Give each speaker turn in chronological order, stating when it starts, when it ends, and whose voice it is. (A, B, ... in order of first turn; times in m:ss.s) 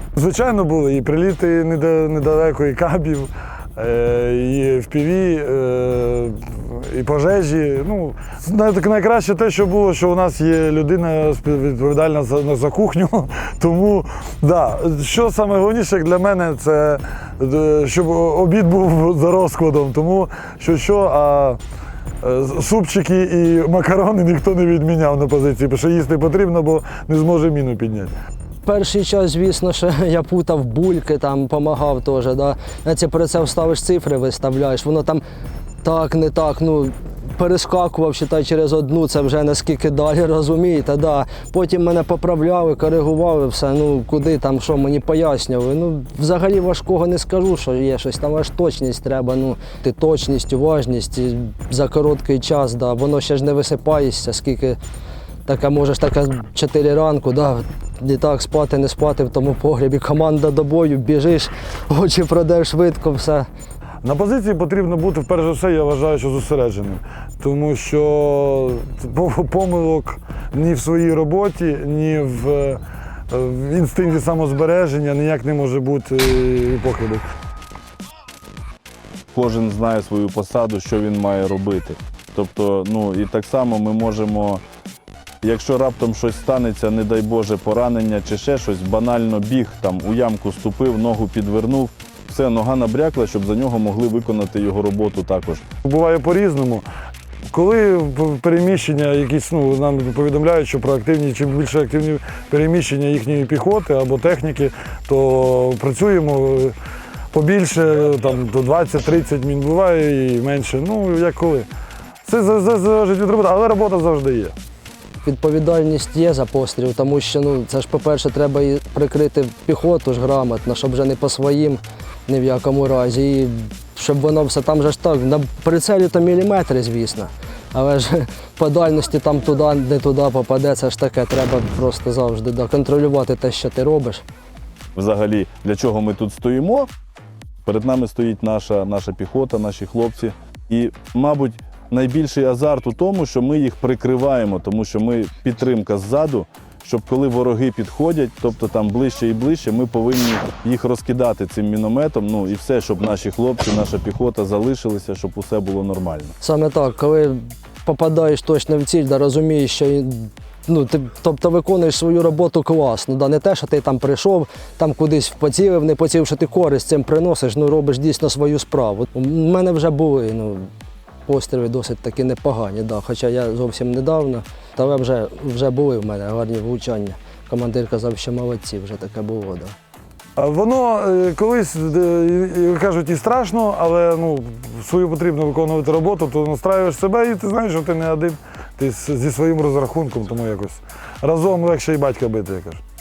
0:00.2-0:21.6 A
0:22.2-0:28.1 A
0:28.6-0:35.2 B
0:35.8-0:54.8 B
0:55.4-1:03.5 B
1:04.0-1:17.2 A
1:19.3-1:24.6 C
1:25.4-1:35.6 C
1:35.8-1:36.8 A
1:37.5-1:46.8 A
1:47.3-1:51.7 A
1:52.2-1:54.5 A
1:55.2-2:14.2 B
2:14.9-2:16.9 C
2:17.6-2:36.3 C
2:36.4-2:50.7 B
2:51.2-2:59.7 B
3:00.4-3:12.8 A